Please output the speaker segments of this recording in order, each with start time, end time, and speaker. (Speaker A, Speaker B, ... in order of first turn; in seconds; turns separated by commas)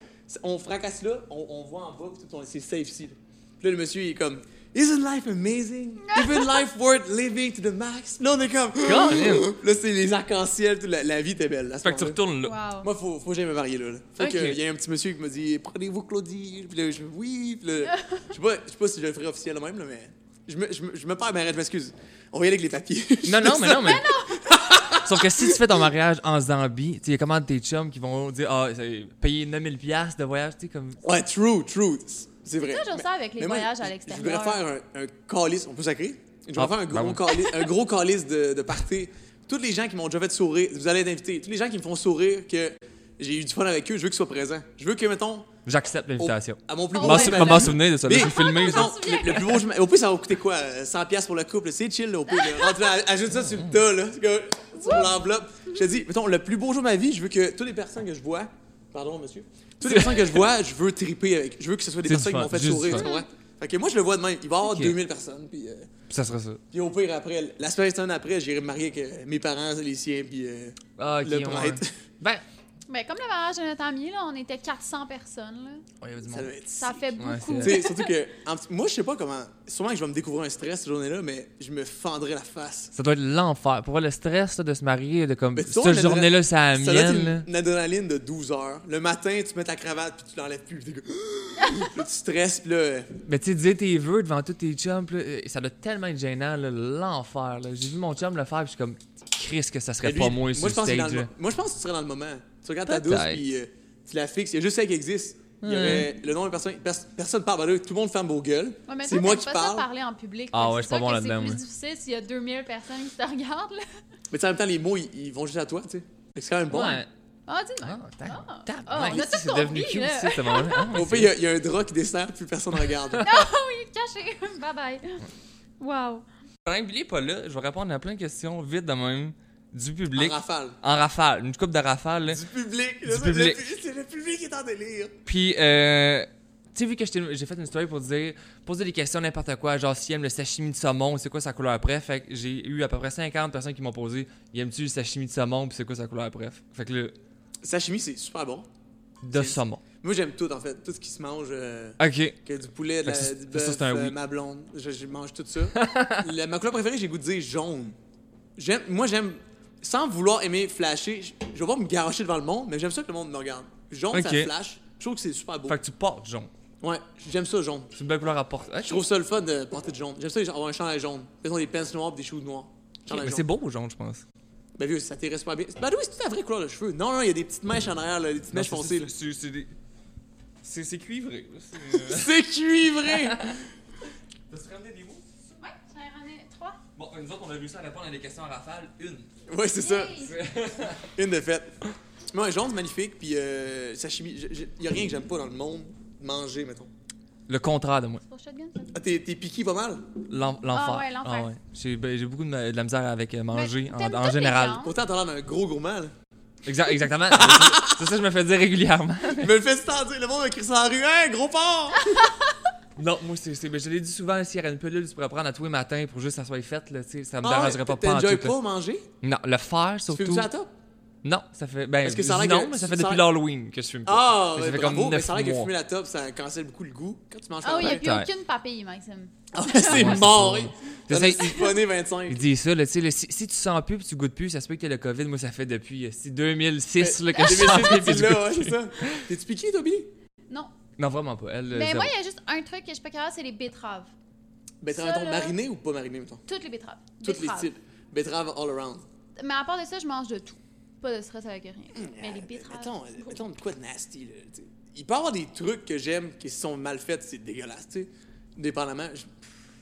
Speaker A: 0.3-12.2, Speaker B: 6.0-6.6, Speaker C: 8.8-9.5, Speaker C: 11.8-12.6, Speaker B: 12.4-12.9, Speaker A: 12.8-25.6, Speaker C: 14.2-14.6, Speaker B: 17.9-18.2, Speaker C: 23.2-24.1, Speaker B: 23.8-24.9, Speaker C: 24.9-31.0, Speaker A: 31.0-45.5, Speaker B: 32.6-34.6, Speaker C: 36.6-37.2, Speaker C: 45.7-49.4, Speaker A: 46.2-65.9, Speaker B: 46.9-49.6, Speaker B: 52.4-52.9, Speaker C: 53.4-53.8, Speaker B: 54.8-55.1, Speaker C: 59.8-60.4, Speaker C: 62.1-63.1, Speaker B: 62.9-63.3, Speaker C: 64.7-65.0, Speaker C: 66.1-66.6, Speaker A: 66.7-71.9, Speaker C: 71.0-72.4, Speaker B: 72.9-75.8, Speaker C: 76.0-76.5, Speaker A: 76.3-82.9, Speaker B: 76.8-78.1, Speaker C: 77.2-77.8, Speaker C: 83.0-87.5, Speaker A: 85.5-93.1, Speaker C: 93.2-101.3, Speaker A: 100.0-109.9, Speaker C: 102.9-103.4, Speaker C: 105.6-106.1, Speaker B: 108.9-113.9, Speaker C: 110.5-111.6, Speaker A: 114.3-117.0, Speaker C: 116.7-117.1, Speaker B: 117.5-120.9, Speaker C: 117.8-121.3, Speaker A: 120.9-123.2, Speaker B: 123.2-125.2, Speaker B: 125.8-126.2, Speaker C: 126.7-132.4, Speaker A: 130.2-130.8, Speaker A: 132.3-135.2, Speaker C: 133.1-133.6, Speaker C: 135.3-147.1, Speaker A: 147.6-148.7, Speaker C: 149.2-149.8, Speaker A: 149.3-158.0, Speaker C: 152.0-152.4, Speaker C: 153.0-154.2, Speaker C: 155.8-156.3, Speaker A: 158.6-165.8, Speaker C: 164.1-164.5, Speaker C: 165.7-166.5, Speaker A: 166.8-167.9, Speaker C: 167.9-169.0, Speaker A: 168.8-173.4, Speaker C: 173.1-174.2, Speaker A: 174.8-179.1, Speaker C: 178.5-179.7, Speaker C: 180.6-182.4, Speaker A: 181.9-183.5, Speaker C: 183.1-183.6, Speaker C: 184.5-185.2, Speaker B: 185.6-186.8, Speaker C: 187.0-189.3, Speaker A: 189.5-190.2, Speaker B: 189.8-190.4, Speaker C: 190.2-191.1, Speaker A: 191.2-191.7, Speaker A: 192.3-196.9, Speaker C: 197.5-198.2, Speaker B: 198.2-198.9, Speaker A: 198.9-200.0, Speaker C: 200.3-204.8, Speaker B: 200.7-201.5, Speaker B: 203.5-204.9, Speaker A: 204.8-206.1, Speaker C: 206.7-209.5, Speaker A: 207.3-208.1, Speaker A: 209.4-212.2, Speaker C: 213.0-218.6, Speaker A: 217.4-219.1, Speaker C: 219.2-220.5, Speaker A: 220.1-220.7, Speaker C: 221.2-225.7, Speaker A: 222.0-223.3, Speaker A: 224.1-228.1, Speaker B: 227.6-230.2, Speaker C: 227.8-228.3, Speaker A: 229.5-232.4, Speaker C: 229.8-231.8, Speaker C: 232.3-239.2, Speaker A: 237.0-240.1, Speaker B: 237.3-237.9, Speaker C: 241.0-242.1, Speaker B: 241.7-244.1, Speaker A: 244.8-246.4, Speaker B: 244.9-245.6, Speaker B: 246.5-247.7, Speaker A: 247.2-249.0, Speaker B: 249.4-253.4, Speaker A: 251.9-259.5